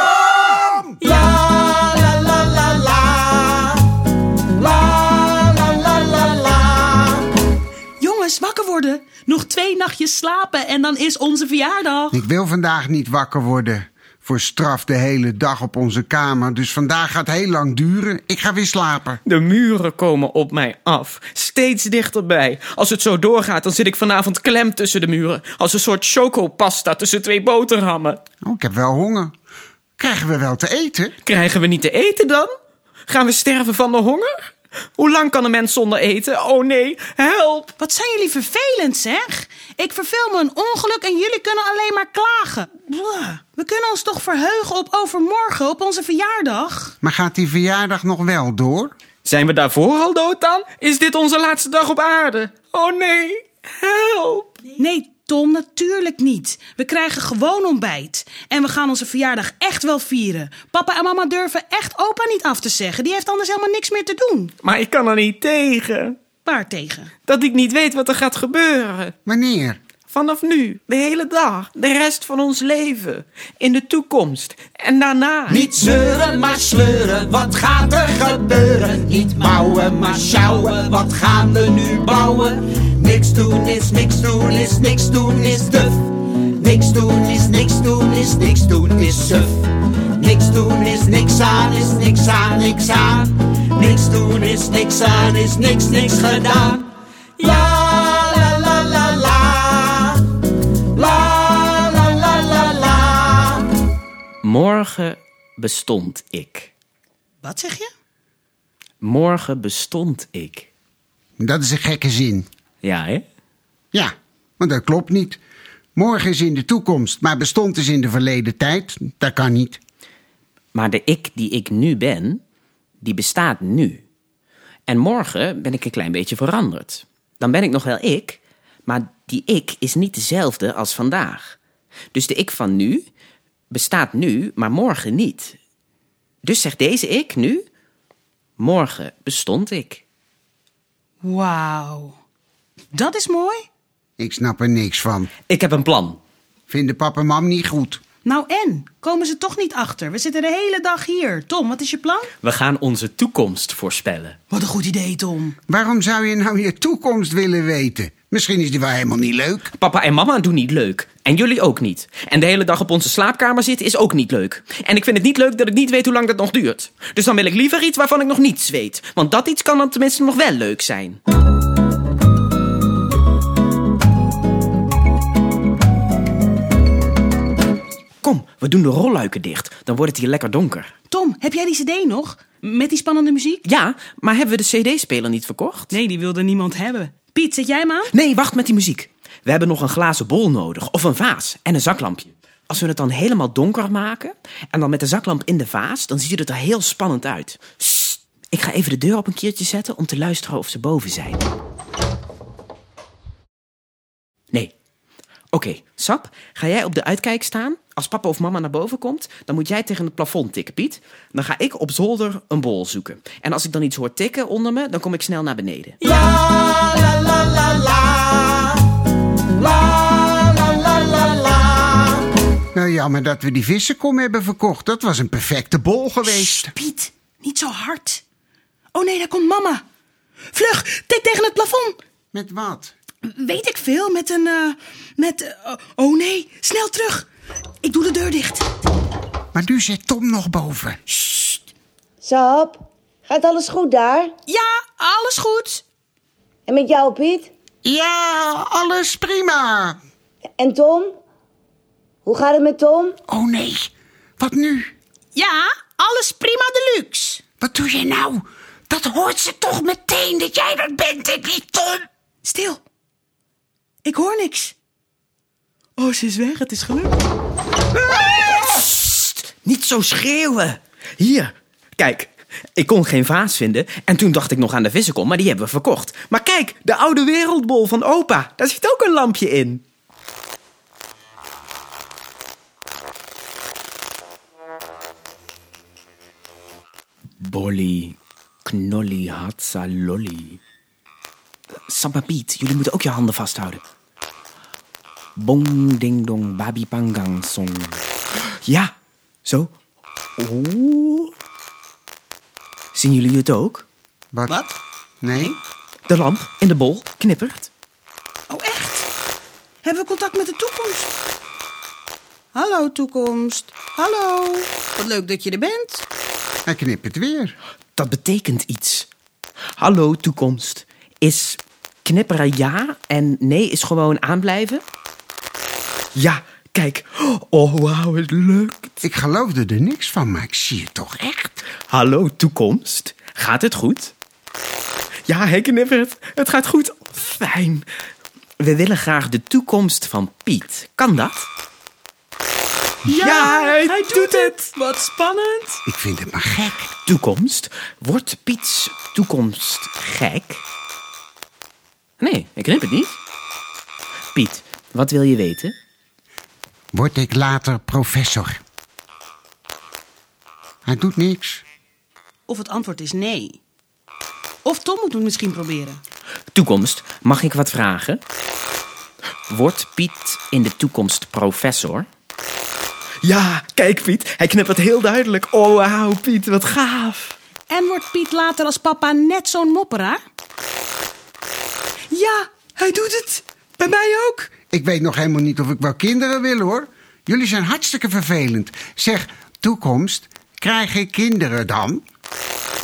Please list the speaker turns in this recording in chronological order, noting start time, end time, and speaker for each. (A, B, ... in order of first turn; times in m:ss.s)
0:08.0-0:12.2 A
0:12.1-0:19.2 B
0:19.2-0:28.2 C
0:28.4-0:29.3 B
0:30.0-0:31.1 B
0:31.2-0:32.5 C
0:33.1-0:37.7 C
0:37.8-0:46.9 A
0:47.0-0:48.9 B
0:49.2-0:54.6 C
0:54.7-1:04.5 A
1:04.6-1:06.2 C
1:06.4-1:07.1 A
1:07.3-1:09.1 C
1:09.2-1:09.8 B
1:10.1-1:15.7 C
1:15.5-1:22.5 B
1:16.3-1:26.0 D
1:23.1-1:25.8 B
1:26.6-1:29.5 D
1:26.8-1:27.6 B
1:28.2-1:28.9 B
1:30.2-1:33.3 D
1:30.4-1:30.7 B
1:31.6-1:33.2 B
1:33.8-1:36.8 D
1:33.8-1:36.1 B
1:39.2-1:39.5 D
1:42.0-1:42.8 D
1:44.4-1:46.7 C
1:47.4-1:47.9 A
1:49.0-1:50.7 C
1:51.4-1:52.4 B
1:52.8-1:53.2 C
1:53.9-1:55.4 B
1:56.0-1:59.8 B
2:00.7-2:02.4 C
2:03.0-2:04.0 C
2:04.9-2:11.6 C
2:12.1-2:13.0 C
2:13.7-2:15.6 C
2:16.4-2:17.6 C
2:18.6-2:20.0 C
2:21.2-2:22.1 A
2:22.9-2:23.6 A
2:24.2-2:25.3 B
2:25.5-2:26.2 C
2:26.7-2:28.0 B
2:28.2-2:32.3 A
2:32.4-2:34.4 C
2:34.5-2:35.6 A
2:35.7-2:39.7 B
2:39.7-2:51.2 C
2:58.2-3:00.9 C
3:01.1-3:03.6 A
3:03.6-3:05.9 C
3:05.9-3:08.1 A
3:08.1-3:21.4 C
3:25.5-3:36.2 C
3:40.6-3:41.7 C
3:42.7-3:46.7 B
3:46.2-3:48.2 A
3:48.9-3:49.8 A
3:50.5-3:52.0 A
3:52.3-3:52.9 B
3:53.2-3:57.3 A
3:57.8-3:58.6 A
3:59.5-4:01.6 B
4:02.2-4:04.3 E
4:04.5-4:05.8 A
4:06.7-4:07.5 E
4:07.8-4:10.0 B
4:10.6-4:11.2 E
4:12.2-4:13.2 E
4:13.3-4:14.9 B
4:15.3-4:17.4 A
4:17.6-4:22.0 B
4:22.4-4:22.8 A
4:24.0-4:24.7 A
4:26.0-4:27.1 A
4:28.0-4:39.8 C
4:47.4-4:50.6 C
4:51.9-4:53.8 C
4:55.4-4:58.0 C
4:58.6-4:58.9 C
4:59.4-4:59.7 C
5:00.4-5:01.3 C
5:02.9-5:03.8 C
5:04.5-5:04.7 A
5:05.2-5:05.5 B
5:06.1-5:07.7 C
5:08.5-5:09.1 A
5:09.8-5:11.1 A
5:12.5-5:16.0 A
5:16.7-5:17.6 B
5:18.0-5:19.1 C
5:19.8-5:24.8 C
5:26.1-5:29.0 C
5:29.0-5:31.6 B
5:31.9-5:34.1 C
5:35.3-5:37.8 C
5:38.6-5:41.5 C
5:43.0-5:45.8 A
5:43.1-5:44.5 C
5:45.8-5:46.9 B
5:47.0-5:50.6 C
5:52.2-5:53.2 C
5:54.3-5:55.7 C
5:56.9-5:58.6 B
6:00.8-6:01.6 B
6:02.5-6:03.6 A
6:04.6-6:06.0 A
6:06.5-6:08.2 C
6:09.5-6:12.1 C
6:13.2-6:17.3 C
6:17.7-6:20.2 A
6:22.1-6:24.5 A
6:24.7-6:32.0 B